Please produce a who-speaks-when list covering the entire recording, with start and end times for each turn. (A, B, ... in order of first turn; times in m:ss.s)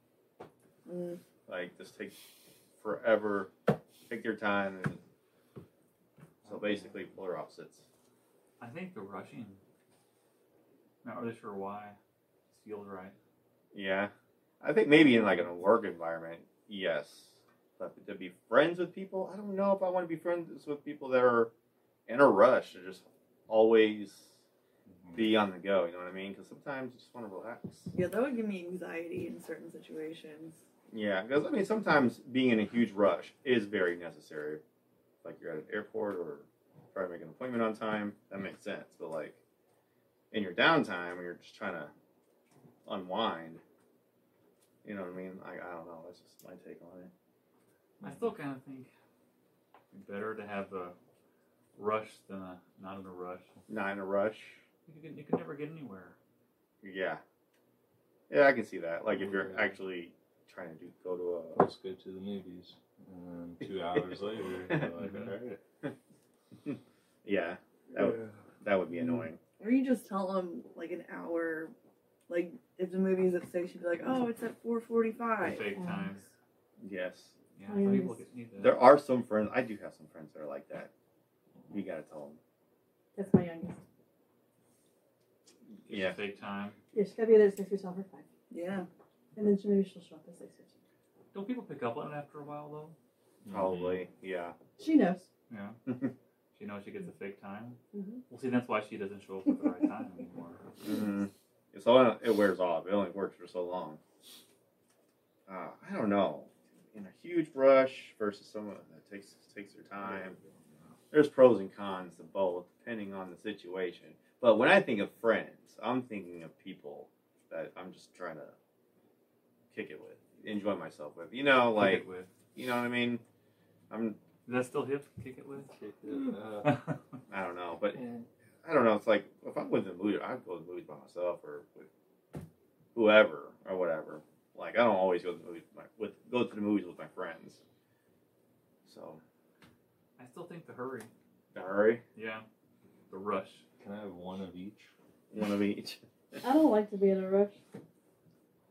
0:00.8-0:01.2 A
0:01.5-0:02.2 B
0:02.8-0:03.5 B
0:04.1-0:05.0 B
0:06.4-0:07.0 C
0:06.4-0:07.8 B
0:08.6-0:09.6 C
0:11.0-0:12.0 C
0:12.5-0:13.1 C
0:13.7-0:21.5 B
0:15.0-0:15.5 C
0:22.1-0:24.4 B
0:25.0-0:25.3 D
0:25.1-0:27.9 B
0:27.9-0:30.6 A
0:30.9-0:34.6 B
0:35.2-0:39.4 B
0:40.3-0:41.9 B
0:42.8-0:43.6 B
0:44.8-0:47.1 B
0:48.0-0:48.9 C
0:49.9-0:50.9 C
0:51.8-0:53.6 C
0:53.7-0:54.6 B
0:54.8-0:56.2 C
0:56.8-0:57.2 B
0:58.3-1:01.7 B
0:59.1-0:59.7 D
1:01.5-1:05.6 D
1:03.9-1:05.0 B
1:05.0-1:05.3 C
1:06.6-1:09.4 B
1:08.0-1:08.3 D
1:09.6-1:11.7 A
1:12.3-1:15.9 A
1:15.4-1:16.3 C
1:15.8-1:16.1 E
1:16.8-1:17.3 B
1:17.6-1:18.8 C
1:17.7-1:18.2 E
1:18.6-1:20.9 B
1:21.7-1:22.4 B
1:23.2-1:23.8 E
1:25.8-1:26.2 B
1:25.8-1:26.8 C
1:26.9-1:28.2 E
1:28.5-1:28.9 A
1:29.3-1:30.7 E
1:31.3-1:33.0 C
1:33.4-1:34.0 D
1:33.5-1:34.5 B
1:34.8-1:35.3 E
1:35.5-1:35.8 C
1:36.5-1:37.8 C
1:37.9-1:38.2 E
1:38.3-1:40.7 C
1:40.8-1:44.0 B
1:45.5-1:50.4 B
1:50.0-1:50.4 D
1:51.1-1:58.5 B
1:59.7-2:03.2 B
2:01.7-2:02.3 C
2:03.9-2:04.2 B
2:04.4-2:05.7 C
2:05.7-2:06.8 D
2:06.6-2:07.0 C
2:07.3-2:08.1 B
2:08.6-2:11.9 B
2:12.9-2:17.6 B
2:18.8-2:19.2 B
2:20.2-2:21.1 C
2:21.5-2:22.0 B
2:22.1-2:22.4 C
2:23.1-2:23.6 C
2:23.8-2:24.9 D
2:25.3-2:26.0 B
2:26.4-2:27.6 E